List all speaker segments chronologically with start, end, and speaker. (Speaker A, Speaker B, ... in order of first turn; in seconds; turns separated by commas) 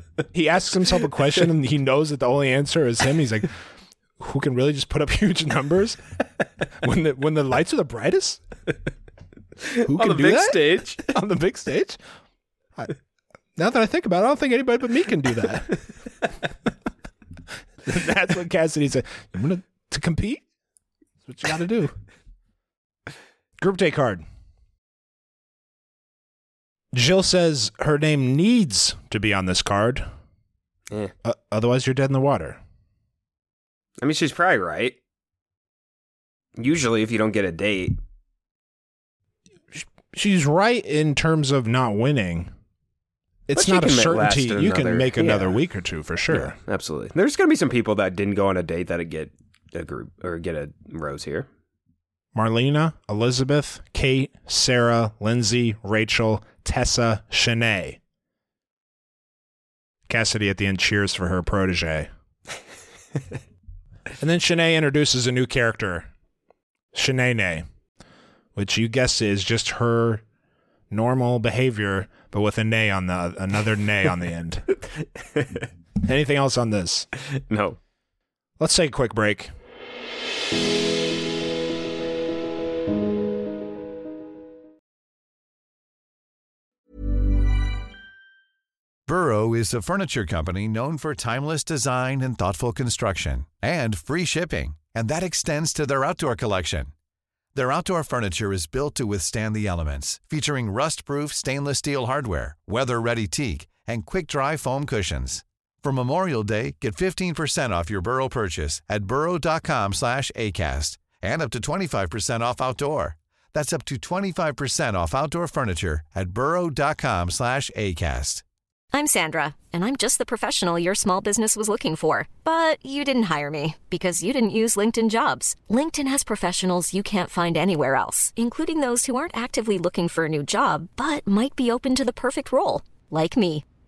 Speaker A: 0.3-3.5, Speaker A: 4.2-6.0, Speaker A: 6.8-8.4, Speaker B: 9.6-11.0, Speaker A: 9.9-12.0, Speaker A: 13.6-15.8, Speaker A: 17.9-20.4, Speaker A: 21.2-21.9, Speaker A: 23.6-24.2, Speaker A: 26.9-30.1, Speaker A: 31.2-32.6, Speaker B: 34.0-35.0, Speaker B: 36.6-38.0, Speaker A: 39.7-42.5, Speaker A: 43.5-46.6, Speaker B: 43.5-45.6, Speaker B: 46.3-51.5, Speaker A: 52.3-58.0, Speaker A: 60.1-62.1, Speaker A: 64.2-66.1, Speaker A: 66.9-67.6, Speaker A: 68.5-70.2, Speaker A: 70.9-74.6, Speaker B: 75.3-75.7, Speaker A: 76.0-77.1, Speaker B: 77.4-77.8, Speaker A: 78.6-79.5, Speaker C: 89.1-96.9, Speaker C: 97.5-118.4, Speaker D: 118.9-133.6